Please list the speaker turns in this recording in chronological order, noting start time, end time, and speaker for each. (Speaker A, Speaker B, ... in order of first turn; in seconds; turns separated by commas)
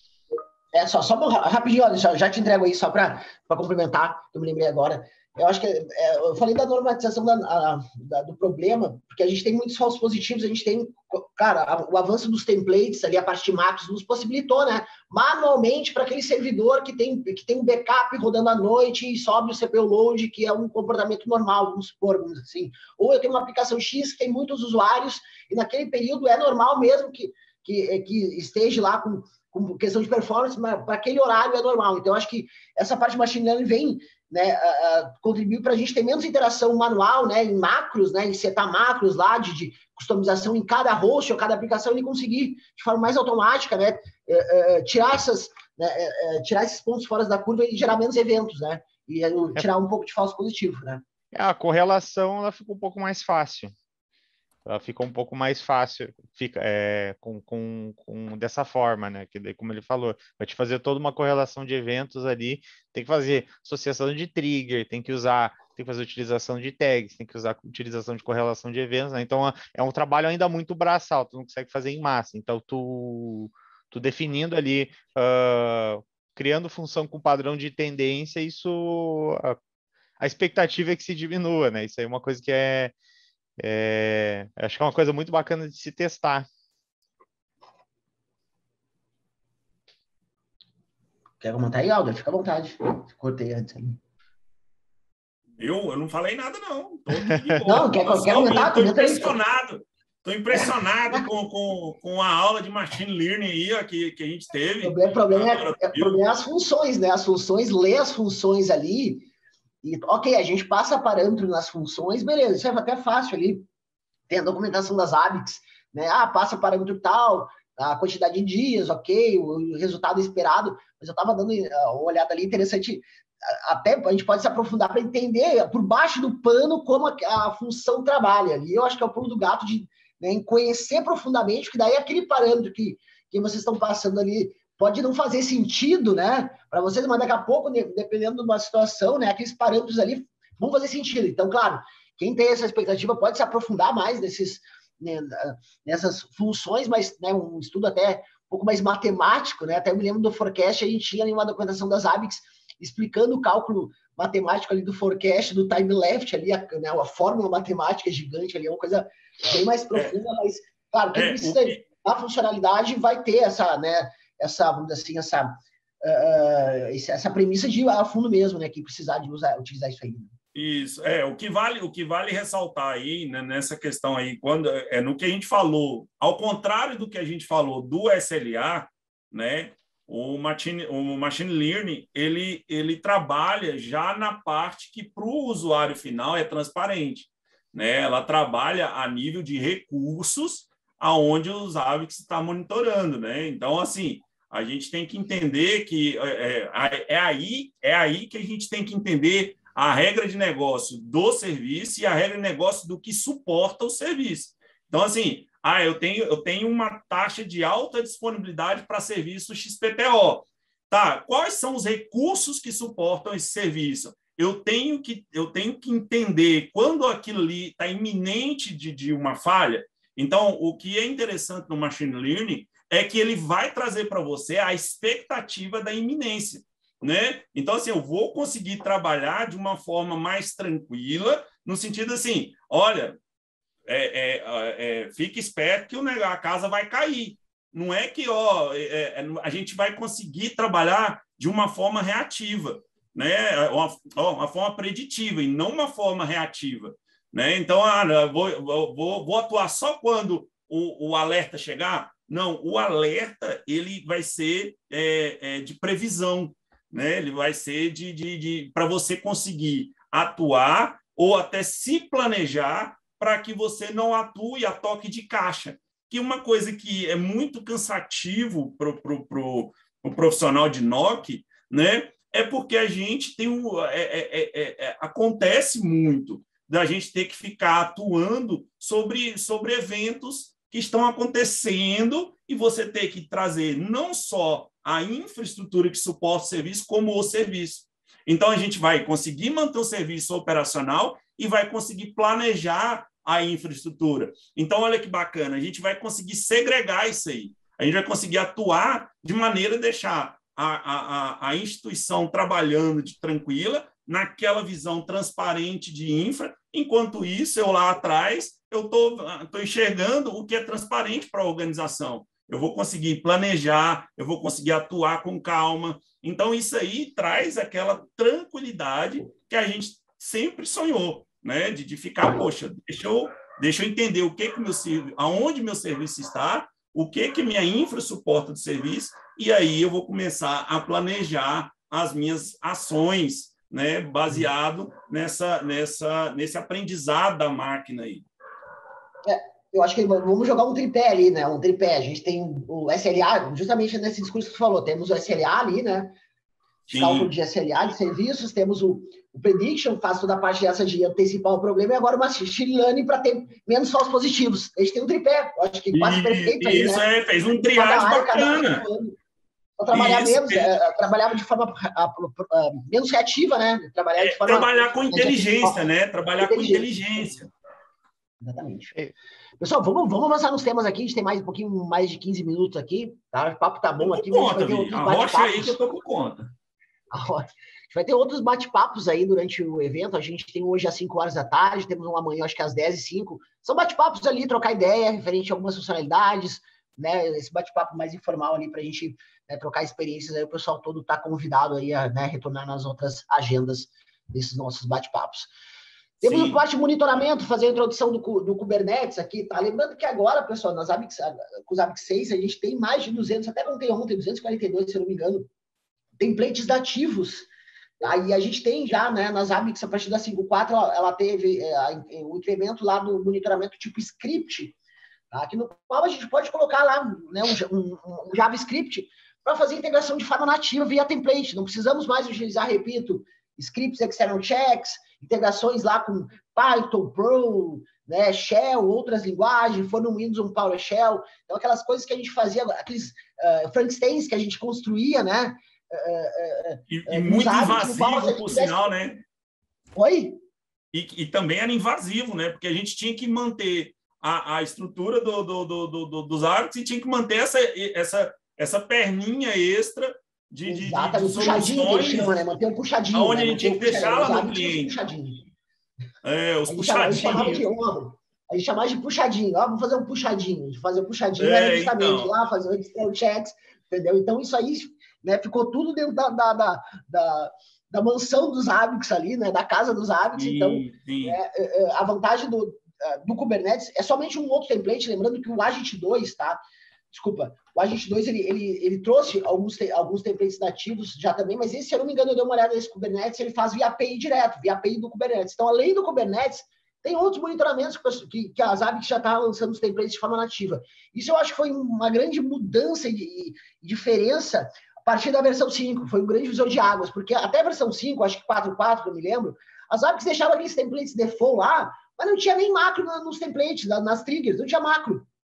Speaker A: 0.7-51.0, Speaker B: 51.3-53.7, Speaker B: 54.6-79.6, Speaker B: 80.2-82.9, Speaker B: 83.6-86.5, Speaker A: 91.4-94.0, Speaker C: 95.6-106.2, Speaker A: 97.6-99.4, Speaker A: 100.5-101.2, Speaker A: 104.8-109.3, Speaker A: 109.8-113.6, Speaker A: 114.3-170.3, Speaker C: 161.1-161.8, Speaker C: 170.5-233.2, Speaker C: 233.9-338.2, Speaker A: 339.2-346.1, Speaker C: 346.9-347.3, Speaker A: 346.9-359.2, Speaker C: 355.9-358.8, Speaker A: 359.8-365.8, Speaker C: 359.9-360.7, Speaker C: 364.2-367.5, Speaker A: 366.4-367.3, Speaker A: 368.4-368.9, Speaker A: 369.6-375.8, Speaker C: 374.0-376.5, Speaker A: 377.1-395.5, Speaker C: 396.2-396.6, Speaker A: 396.2-405.5, Speaker A: 406.2-407.5, Speaker A: 408.0-414.8, Speaker A: 415.3-438.9, Speaker C: 436.9-439.2, Speaker A: 439.9-440.4, Speaker C: 440.9-452.3, Speaker A: 450.6-455.4, Speaker C: 453.1-454.9, Speaker C: 456.2-457.6, Speaker A: 456.7-476.6, Speaker C: 461.4-462.3, Speaker C: 470.4-471.4, Speaker A: 477.1-505.2